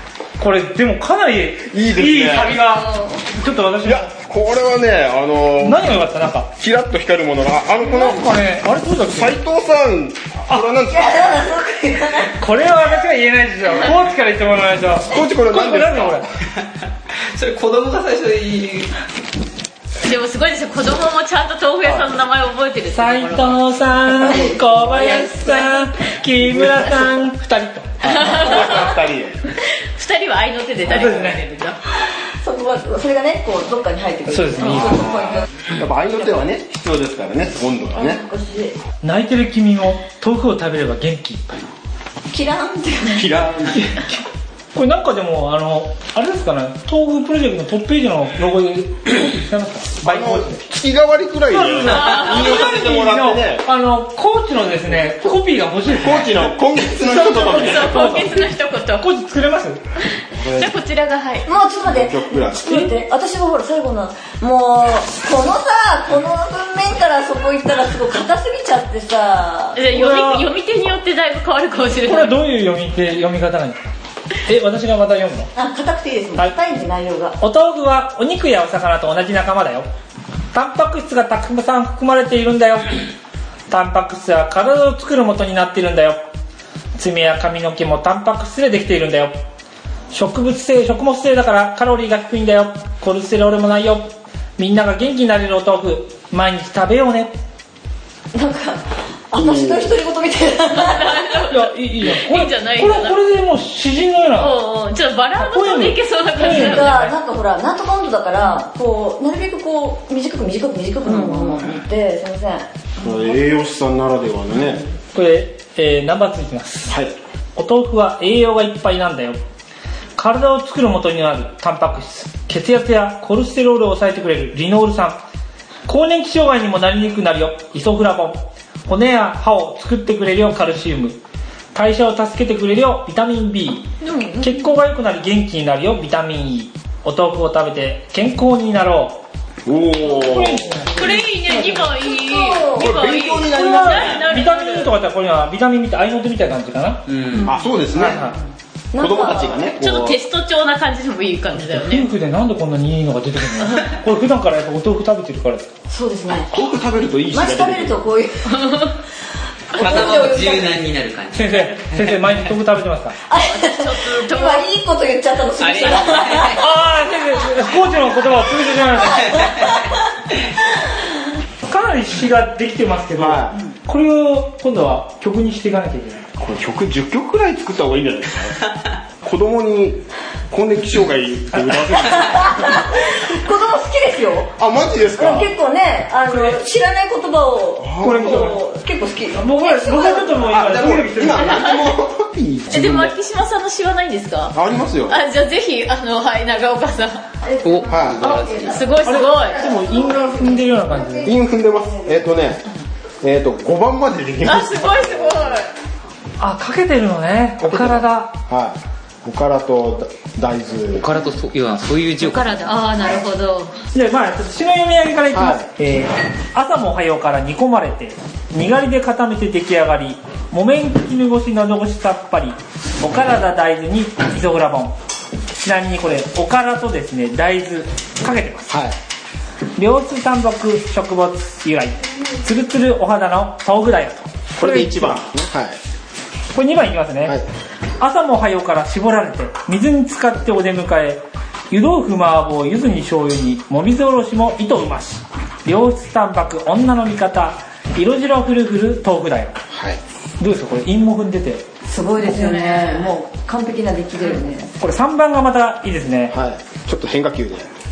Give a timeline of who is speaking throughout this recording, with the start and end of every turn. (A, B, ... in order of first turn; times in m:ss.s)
0:00.4-0:04.1 A
0:01.7-0:02.7 B
0:03.8-0:06.0 B
0:05.6-0:06.5 A
0:06.6-0:08.3 B
0:07.8-0:09.4 A
0:09.1-0:11.5 B
0:10.9-0:12.3 C
0:12.3-0:16.2 A
0:15.1-0:16.3 B
0:17.3-0:18.9 D
0:20.0-0:23.6 E
0:22.9-0:28.3 A
0:24.3-0:24.8 C
0:25.0-0:25.7 E
0:26.4-0:27.0 B
0:28.0-0:29.4 B
0:28.1-0:29.0 E
0:29.9-0:31.8 E
0:30.8-0:31.4 A
0:32.4-0:35.5 C
0:34.3-0:35.2 A
0:34.6-0:38.2 B
0:37.9-0:38.8 C
0:39.0-0:41.6 A
0:42.3-0:43.3 C
0:43.1-0:44.1 B
0:44.7-0:50.6 A
0:50.0-0:53.7 B
0:51.5-0:59.8 A
0:51.9-0:52.5 E
0:56.0-0:58.2 B
0:57.0-0:59.1 E
1:00.3-1:00.8 B
1:00.5-1:01.5 E
1:01.4-1:09.8 C
1:01.8-1:02.8 B
1:02.7-1:02.9 A
1:09.8-1:12.4 E
1:09.9-1:10.5 A
1:12.1-1:13.8 A
1:14.5-1:15.5 A
1:15.6-1:17.4 C
1:17.4-1:19.9 A
1:20.5-1:23.0 A
1:23.7-1:26.2 A
1:27.0-1:29.3 A
1:30.1-1:37.3 A
1:38.3-1:41.4 C
1:39.4-1:40.0 B
1:40.8-1:43.2 E
1:41.5-1:44.6 A
1:44.4-1:47.1 E
1:45.4-1:47.2 A
1:46.4-1:52.7 C
1:51.1-1:51.6 E
1:53.0-1:54.9 B
1:55.1-1:57.0 A
1:56.9-1:57.2 B
1:57.6-1:59.4 A
2:00.2-2:05.2 A
2:05.9-2:11.2 A
2:11.7-2:13.9 A
2:14.0-2:14.6 E
2:14.4-2:19.2 A
2:19.7-2:20.8 B
2:20.0-2:21.9 A
2:20.9-2:25.0 E
2:22.1-2:22.9 C
2:22.8-2:24.3 B
2:23.5-2:27.0 A
2:27.1-2:27.5 D
2:27.4-2:28.3 B
2:27.9-2:28.4 A
2:28.9-2:29.7 C
2:29.0-2:30.2 B
2:29.8-2:32.1 E
2:31.6-2:35.7 A
2:35.9-2:36.6 C
2:36.5-2:38.0 B
2:37.2-2:38.8 C
2:38.6-2:38.9 E
2:39.7-2:42.4 D
2:39.8-2:40.8 C
2:41.3-2:43.2 A
2:43.3-2:46.6 C
2:43.4-2:44.7 E
2:45.6-2:46.7 D
2:46.6-2:49.4 A
2:51.7-2:56.2 A
2:53.2-2:53.6 B
2:56.4-2:58.6 B
2:59.2-3:02.8 B
3:02.1-3:04.6 C
3:04.6-3:05.6 B
3:05.1-3:10.4 C
3:06.3-3:06.6 A
3:07.8-3:08.5 B
3:08.0-3:08.6 A
3:09.4-3:11.6 A
3:10.2-3:13.2 B
3:11.4-3:11.8 E
3:12.7-3:14.6 E
3:14.5-3:15.2 B
3:15.1-3:17.2 E
3:17.4-3:18.8 C
3:17.6-3:18.8 D
3:17.8-3:18.3 B
3:18.6-3:19.6 E
3:19.0-3:21.3 A
3:19.7-3:21.2 C
3:21.2-3:22.6 B
3:23.2-3:25.6 B
3:24.4-3:25.7 E
3:26.4-3:28.3 A
3:27.6-3:31.1 B
3:31.0-3:32.8 D
3:32.2-3:33.8 E
3:33.9-3:45.0 A
3:35.3-3:35.7 B
3:45.6-3:48.7 A
3:48.7-3:49.0 B
3:49.8-3:55.3 A
3:54.6-3:55.8 B
3:56.5-3:57.4 A
3:58.0-4:09.6 A
4:09.7-4:10.0 B
4:10.4-4:11.6 A
4:11.9-4:14.7 C
4:12.2-4:13.1 E
4:14.8-4:16.4 A
4:16.3-4:17.7 B